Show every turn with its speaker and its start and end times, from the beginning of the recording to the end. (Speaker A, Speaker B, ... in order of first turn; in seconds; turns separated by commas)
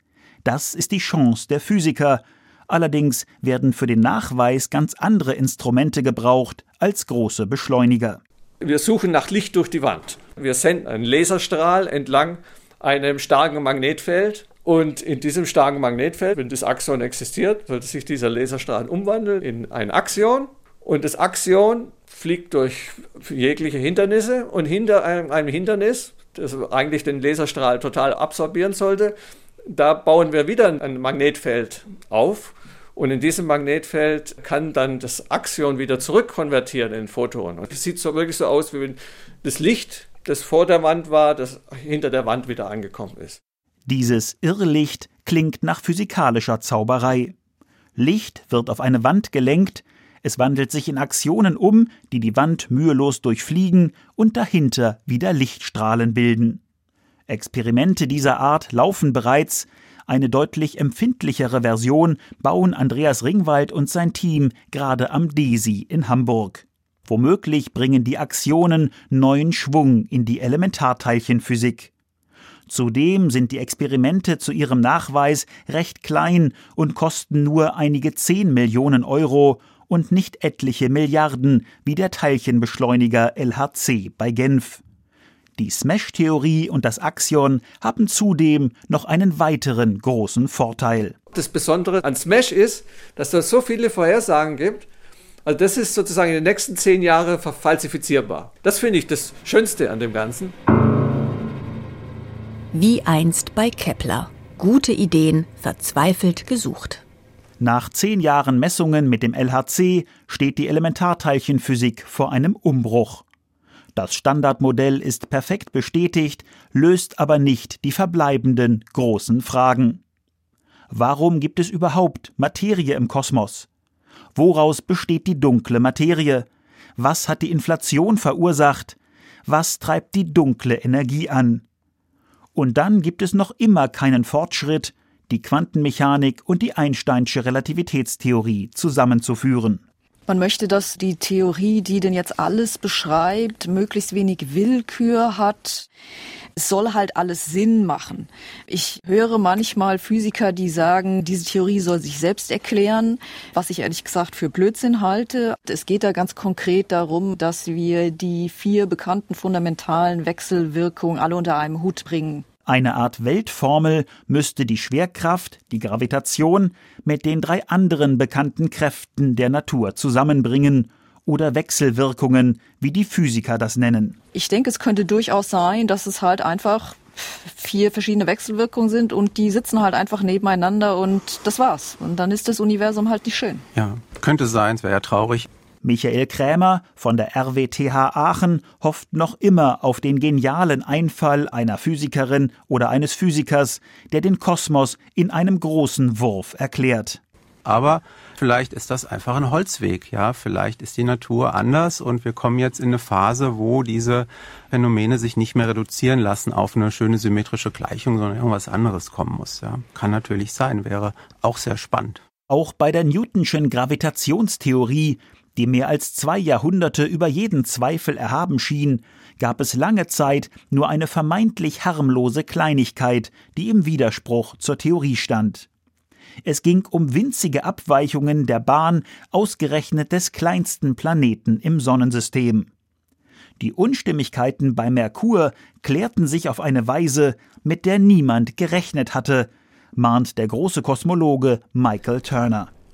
Speaker A: 0.4-8.2, Speaker B: 8.6-29.1, Speaker B: 29.6-43.4, Speaker A: 43.9-47.3, Speaker A: 48.0-56.6, Speaker A: 57.3-71.9, Speaker A: 72.7-84.8, Speaker A: 85.6-91.2, Speaker B: 91.3-94.8, Speaker B: 95.4-100.5, Speaker C: 102.7-107.0, Speaker A: 107.6-113.2, Speaker A: 113.9-120.0, Speaker A: 120.9-123.7, Speaker A: 124.3-131.6, Speaker A: 132.5-139.8, Speaker D: 140.3-145.9, Speaker D: 146.6-162.4, Speaker A: 162.7-174.2, Speaker D: 174.3-183.7, Speaker E: 183.7-185.5, Speaker A: 185.8-197.2, Speaker E: 197.6-212.2, Speaker A: 212.5-225.7, Speaker A: 226.4-232.7, Speaker A: 233.6-242.7